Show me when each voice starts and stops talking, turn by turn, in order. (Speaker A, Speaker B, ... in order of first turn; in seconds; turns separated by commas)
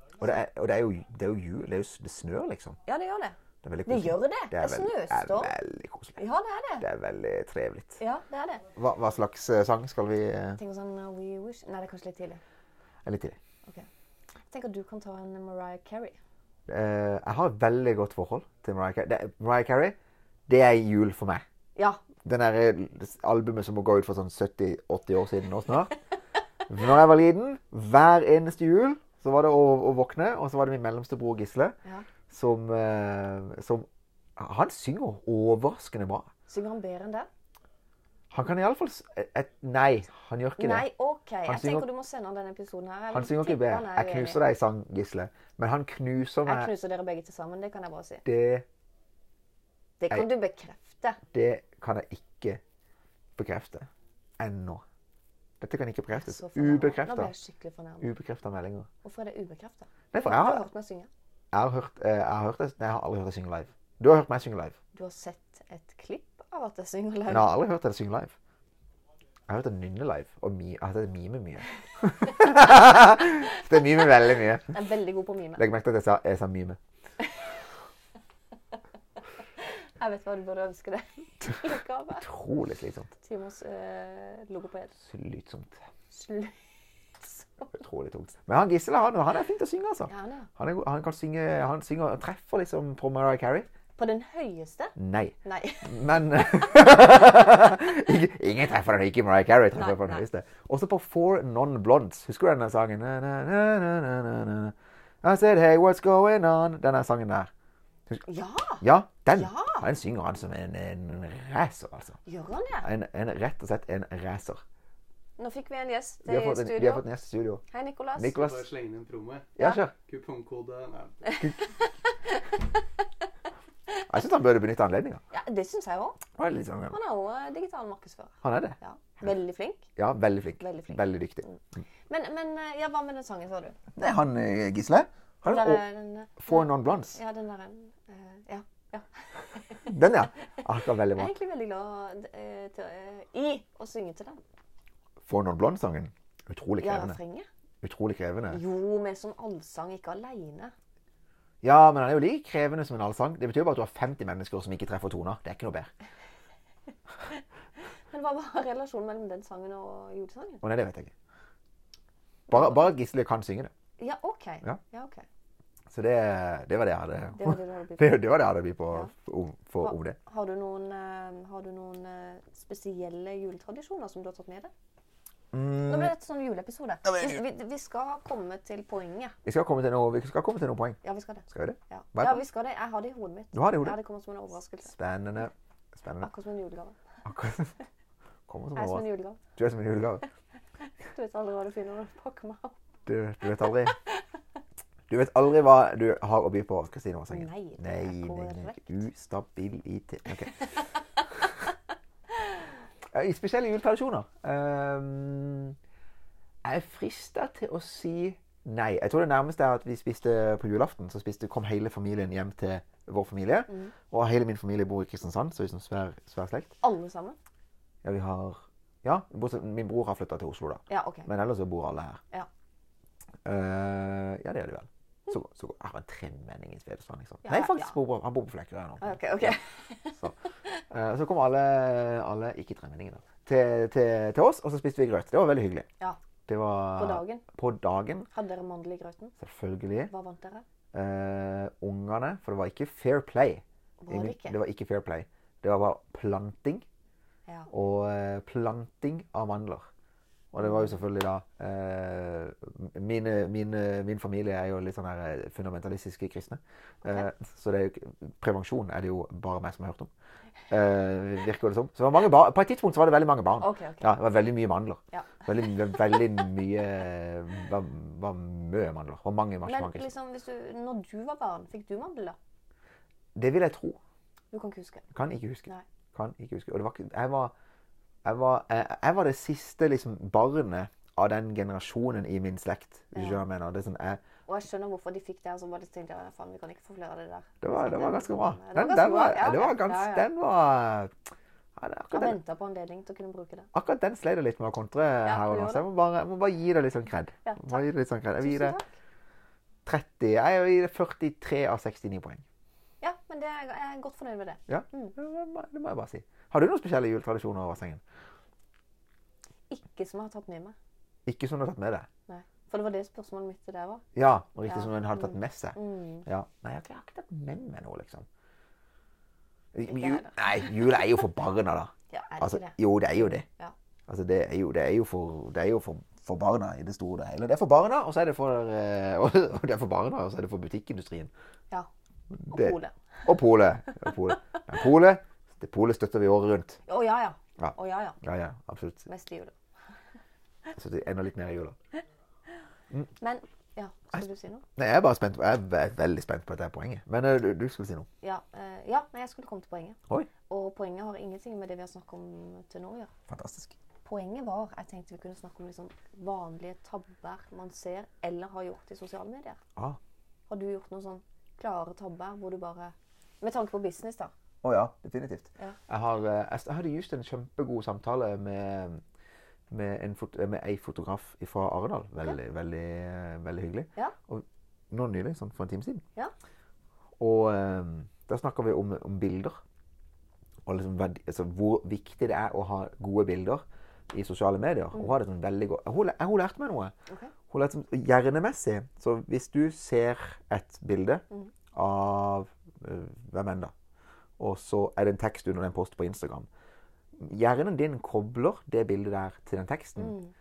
Speaker A: 0.2-2.8, Speaker B: 2.9-5.5, Speaker A: 3.6-6.2, Speaker B: 6.2-6.8, Speaker A: 6.8-8.0, Speaker B: 8.0-8.7, Speaker A: 8.7-10.6, Speaker B: 10.6-12.4, Speaker A: 13.0-13.4, Speaker B: 14.5-16.2, Speaker A: 16.7-19.9, Speaker A: 20.5-21.4, Speaker B: 21.8-22.0, Speaker A: 22.2-25.9, Speaker A: 26.7-31.7, Speaker A: 32.3-36.3, Speaker B: 36.5-37.3, Speaker A: 38.3-40.9, Speaker B: 40.6-44.4, Speaker A: 41.4-41.9, Speaker A: 43.1-46.7, Speaker B: 46.4-48.2, Speaker A: 48.2-48.6, Speaker B: 50.0-51.2, Speaker A: 51.3-52.6, Speaker A: 53.4-53.9, Speaker A: 54.4-54.8, Speaker A: 55.6-57.3, Speaker B: 56.2-58.1, Speaker A: 58.0-58.9, Speaker B: 59.0-61.1, Speaker A: 60.1-60.6, Speaker A: 61.5-64.8, Speaker B: 64.9-67.5, Speaker A: 67.3-68.3, Speaker A: 69.5-74.8, Speaker B: 74.7-75.6, Speaker A: 75.6-76.8, Speaker B: 79.6-82.2, Speaker A: 82.2-83.1, Speaker B: 83.2-85.0, Speaker A: 85.0-85.8, Speaker B: 86.1-87.5, Speaker A: 87.7-93.7, Speaker B: 90.1-90.5, Speaker B: 94.0-96.0, Speaker A: 95.0-107.5, Speaker B: 108.2-109.8, Speaker A: 108.8-112.2, Speaker B: 112.2-112.9, Speaker A: 112.8-114.6, Speaker B: 115.4-117.0, Speaker A: 116.2-117.6, Speaker B: 117.7-118.5, Speaker A: 118.2-118.7, Speaker C: 118.3-121.4, Speaker A: 119.6-119.9, Speaker B: 121.2-122.6, Speaker A: 124.1-125.2, Speaker B: 125.3-126.2, Speaker A: 126.4-127.0, Speaker B: 126.9-129.9, Speaker A: 128.4-129.3, Speaker A: 129.9-131.4, Speaker B: 130.6-131.6, Speaker B: 132.1-133.8, Speaker A: 133.9-135.8, Speaker B: 135.4-139.9, Speaker A: 136.4-137.2, Speaker A: 139.8-141.3, Speaker B: 141.1-144.4, Speaker A: 145.2-147.2, Speaker B: 146.8-147.5, Speaker A: 147.8-148.6, Speaker B: 148.5-150.7, Speaker A: 151.6-155.9, Speaker B: 158.1-160.6, Speaker A: 160.6-161.1, Speaker A: 162.5-163.7, Speaker B: 162.5-162.8, Speaker B: 164.0-165.2, Speaker A: 165.9-170.2, Speaker B: 167.3-168.2, Speaker B: 169.8-174.7, Speaker A: 175.5-176.1, Speaker B: 175.8-179.3, Speaker A: 179.4-181.0, Speaker B: 181.0-184.9, Speaker A: 181.5-182.4, Speaker A: 183.5-184.0, Speaker A: 184.8-186.3, Speaker B: 186.2-186.9, Speaker A: 187.2-187.8, Speaker A: 188.5-190.2, Speaker B: 188.8-189.4, Speaker B: 191.0-192.8, Speaker A: 193.1-194.0, Speaker B: 193.8-194.2, Speaker A: 195.1-200.7, Speaker B: 197.3-199.0, Speaker A: 203.1-205.8, Speaker A: 206.6-216.7, Speaker B: 216.8-217.4, Speaker A: 218.0-222.2, Speaker B: 220.9-221.3, Speaker A: 223.4-229.6, Speaker B: 227.4-227.9, Speaker B: 229.0-230.7, Speaker A: 230.9-235.9, Speaker A: 236.5-238.3, Speaker B: 236.9-237.4, Speaker B: 238.3-239.3, Speaker A: 239.4-240.1, Speaker B: 240.1-240.6, Speaker A: 240.9-246.8, Speaker B: 244.0-244.6, Speaker A: 247.7-249.9, Speaker A: 250.5-260.1, Speaker A: 260.7-270.1, Speaker B: 263.6-264.1, Speaker B: 265.1-265.4, Speaker B: 269.6-272.4, Speaker A: 273.3-274.0, Speaker B: 274.5-275.1, Speaker A: 275.1-277.5, Speaker A: 278.2-284.2, Speaker B: 283.1-283.4, Speaker B: 284.5-290.3, Speaker A: 287.6-291.1, Speaker A: 291.8-292.4, Speaker B: 292.1-293.7, Speaker A: 293.7-298.8, Speaker B: 295.2-295.8, Speaker B: 297.4-297.8, Speaker B: 298.4-298.9, Speaker A: 299.9-302.4, Speaker B: 303.0-305.1, Speaker A: 304.7-308.0, Speaker B: 309.7-310.7, Speaker A: 311.2-312.1, Speaker B: 312.3-314.0, Speaker A: 314.1-318.2, Speaker B: 314.6-316.2, Speaker A: 319.7-323.4, Speaker B: 319.8-320.4, Speaker B: 322.1-322.8, Speaker A: 324.1-331.3, Speaker A: 332.4-336.8, Speaker B: 332.5-333.0, Speaker B: 336.9-338.2, Speaker A: 337.6-339.1, Speaker B: 339.1-339.5, Speaker A: 340.7-341.8, Speaker B: 343.2-344.6, Speaker A: 344.8-348.1, Speaker B: 348.2-353.1, Speaker A: 353.3-353.8, Speaker B: 354.0-359.6, Speaker B: 360.5-364.3, Speaker A: 364.6-369.0, Speaker A: 369.7-376.0, Speaker A: 377.2-379.6, Speaker A: 380.6-386.9, Speaker B: 387.1-387.3, Speaker A: 387.5-393.7, Speaker A: 394.4-396.5, Speaker A: 397.2-400.2, Speaker B: 400.0-400.3